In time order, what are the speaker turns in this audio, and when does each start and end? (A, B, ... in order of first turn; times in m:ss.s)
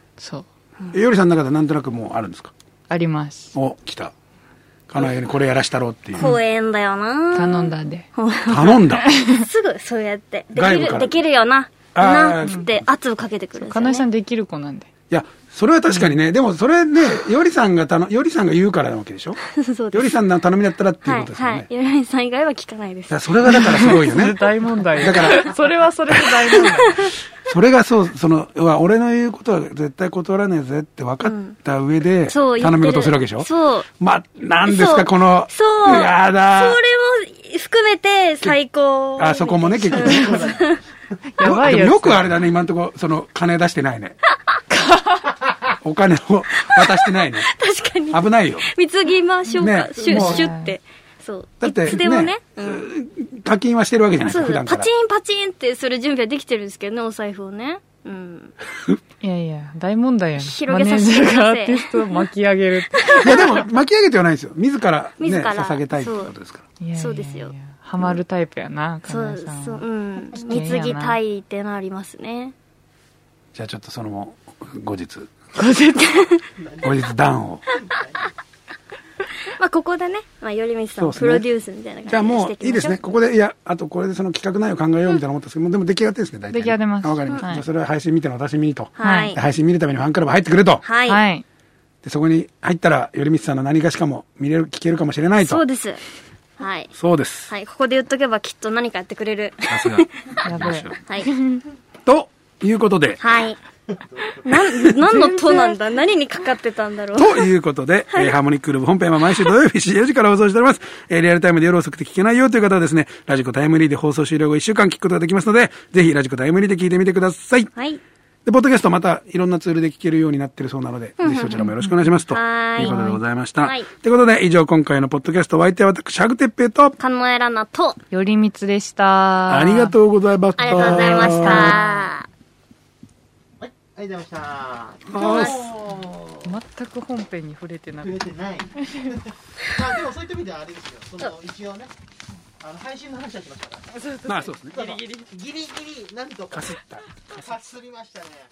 0:00.2-0:00.4 A
0:00.9-0:02.5 B
0:02.9-0:03.5 A
0:03.5-0:04.1 B
0:04.9-0:06.4 B
0:06.1-0:14.0 C
0:07.3-0:08.1 A
0:08.5-0:09.0 B
0:09.0-0:09.4 A
0:10.5-0:11.1 B
0:11.9-0:12.8 B
0:12.4-0:12.7 A
0:13.6-0:14.9 A
0:15.1-0:19.4 B
0:19.5-0:20.2 C
0:19.9-0:21.7 B
0:21.0-0:23.6 C
0:23.1-0:24.4 B
0:23.6-0:27.1 A
0:25.0-0:25.5 B
0:27.1-0:36.8 B
0:31.2-0:31.6 C
0:32.3-0:33.9 C
0:34.6-0:40.8 C
0:39.2-0:40.5 B
0:39.9-0:40.5 A
0:41.3-0:42.3 A
0:41.4-0:44.2 B
0:44.7-0:45.3 A
0:45.7-0:47.5 B
0:46.6-0:52.8 C
0:48.1-0:48.7 B
0:49.6-0:50.5 B
0:49.6-0:50.8 A
0:51.6-0:54.9 B
0:54.2-0:58.5 C
0:59.2-1:03.6 A
1:00.4-1:02.3 C
1:03.0-1:03.5 C
1:03.2-1:06.6 B
1:05.2-1:06.3 C
1:06.8-1:09.8 A
1:07.0-1:07.5 C
1:09.1-1:12.5 C
1:10.4-1:11.2 A
1:13.5-1:15.3 B
1:15.6-1:16.3 A
1:16.0-1:16.4 C
1:16.8-1:17.6 B
1:19.5-1:23.1 C
1:21.0-1:21.4 B
1:22.1-1:30.8 B
1:26.5-1:27.6 A
1:29.0-1:29.4 C
1:29.0-1:29.4 A
1:30.8-1:31.2 C
1:31.0-1:31.4 A
1:32.0-1:35.6 B
1:35.4-1:36.0 C
1:36.6-1:36.9 C
1:36.9-1:37.5 B
1:37.5-1:40.2 C
1:39.7-1:41.0 B
1:40.4-1:41.6 A
1:41.0-1:41.3 C
1:42.0-1:43.2 B
1:43.2-1:43.6 C
1:44.3-1:47.5 C
1:44.5-1:45.1 B
1:45.0-1:45.8 A
1:47.2-1:57.7 B
1:57.7-1:58.0 C
1:58.4-2:07.0 B
2:01.2-2:01.7 C
2:01.6-2:02.0 A
2:02.3-2:03.0 C
2:02.8-2:03.2 A
2:03.6-2:03.9 C
2:07.0-2:08.0 C
2:08.1-2:09.9 A
2:09.5-2:11.8 B
2:10.6-2:12.3 C
2:10.7-2:12.1 A
2:13.6-2:15.0 D
2:15.1-2:15.7 B
2:15.1-2:15.6 C
2:15.2-2:19.2 A
2:18.3-2:18.6 D
2:19.8-2:21.9 D
2:22.6-2:23.8 D
2:23.9-2:25.3 A
2:24.2-2:24.9 B
2:25.4-2:26.5 D
2:26.5-2:27.7 B
2:27.6-2:28.4 D